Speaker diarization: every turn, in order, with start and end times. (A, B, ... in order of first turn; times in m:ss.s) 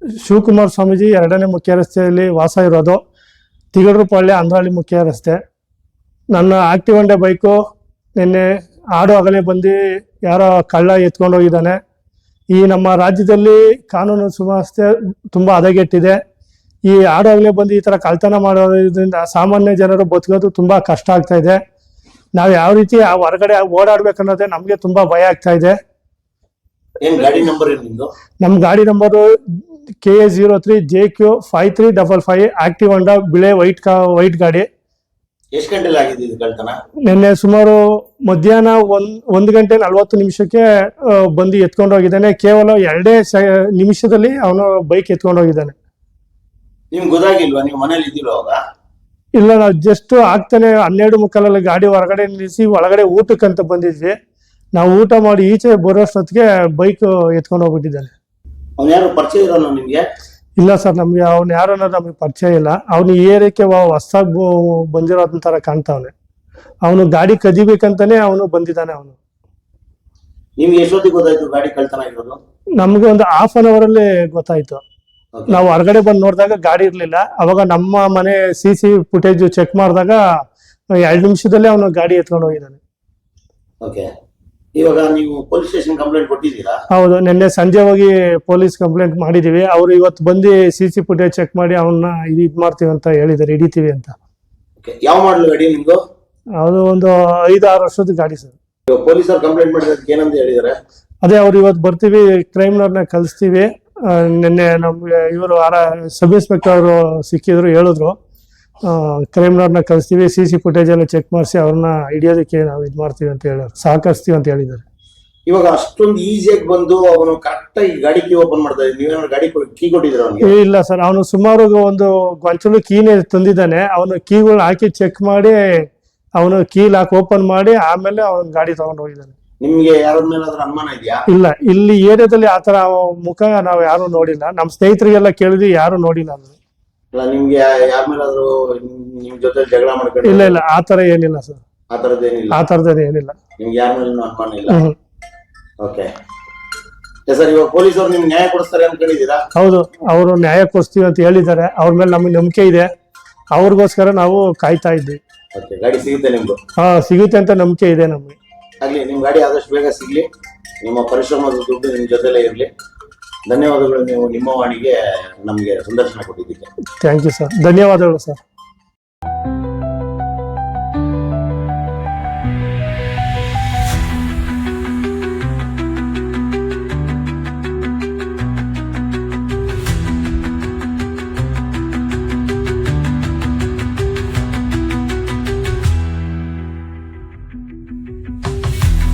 0:00.2-0:03.0 A
0:03.7-0:05.4 A
0:06.3-0:07.6 A
0:08.2-0:11.8 A
0:12.5-0:16.2 A
0:16.8-0:21.6 A
0:22.3-0:25.8 A
0:27.0-0:28.1 B
0:28.4-0:34.7 A
0:35.5-0:36.7 B
0:37.0-0:45.7 A
0:46.9-0:48.6 B
0:49.4-0:54.2 A
0:54.7-0:58.1 A
0:58.8-1:00.0 B
1:00.6-1:06.1 A
1:06.8-1:09.2 A
1:10.6-1:12.4 B
1:12.8-1:14.8 A
1:15.3-1:15.6 B
1:15.5-1:20.2 A
1:21.0-1:22.8 A
1:23.8-1:24.1 B
1:24.8-1:26.8 B
1:26.9-1:34.2 A
1:34.8-1:36.0 B
1:36.6-1:38.6 A
1:38.9-1:40.7 B
1:41.2-1:48.2 A
1:48.8-1:54.8 A
1:55.5-2:00.6 B
2:00.4-2:05.6 A
2:06.4-2:09.3 A
2:09.6-2:11.2 B
2:11.3-2:16.6 A
2:17.1-2:20.6 B
2:20.2-2:21.6 A
2:21.9-2:22.6 B
2:22.5-2:23.4 A
2:23.6-2:24.8 B
2:24.7-2:24.9 A
2:25.8-2:26.1 B
2:27.3-2:29.4 B
2:29.5-2:32.9 A
2:33.5-2:35.2 A
2:35.5-2:36.6 B
2:36.8-2:38.4 A
2:38.8-2:40.3 B
2:40.8-2:42.7 B
2:43.4-2:46.7 B
2:47.0-2:48.4 A